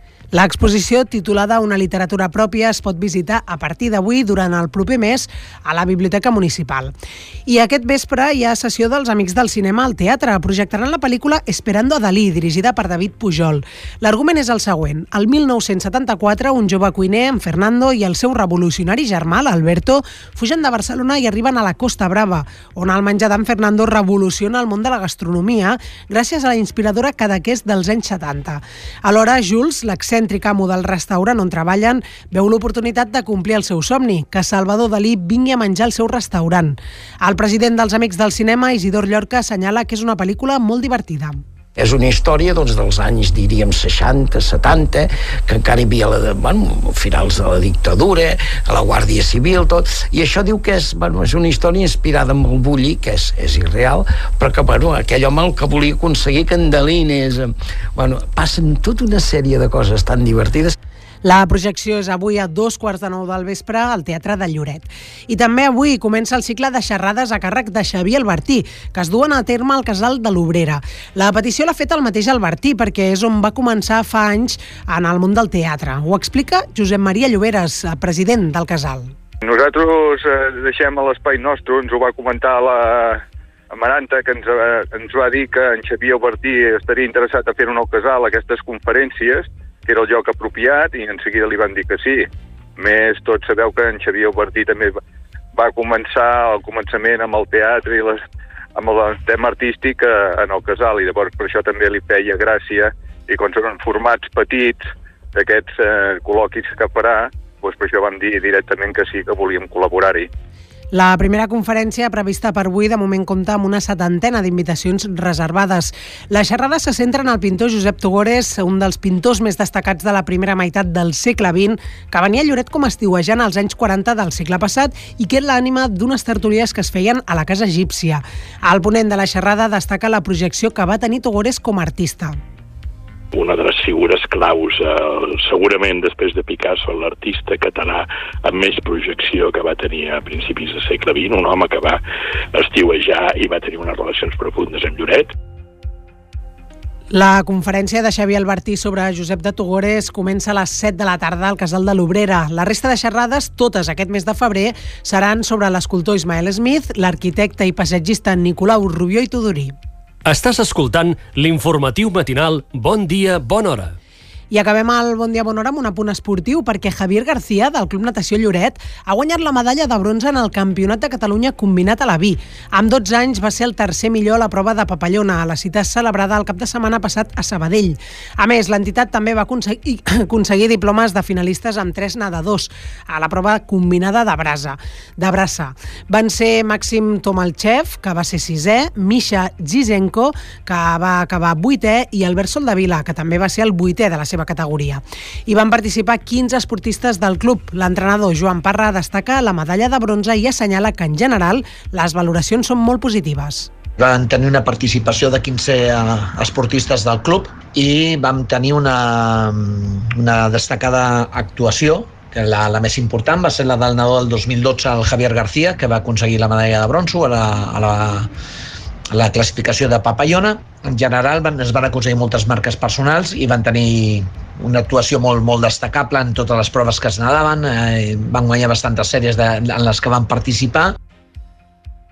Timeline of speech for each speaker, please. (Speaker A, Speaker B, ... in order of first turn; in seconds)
Speaker A: 0.3-6.9, 7.5-41.4, 61.3-79.1, 110.9-132.3, 147.1-159.7, 164.5-203.7
Speaker B: 41.8-60.8
Speaker C: 79.4-95.0, 95.5-98.2, 98.8-110.3
Speaker D: 133.3-142.0, 142.5-145.3
Speaker E: 160.2-163.9
Speaker F: 204.0-218.3, 219.1-230.9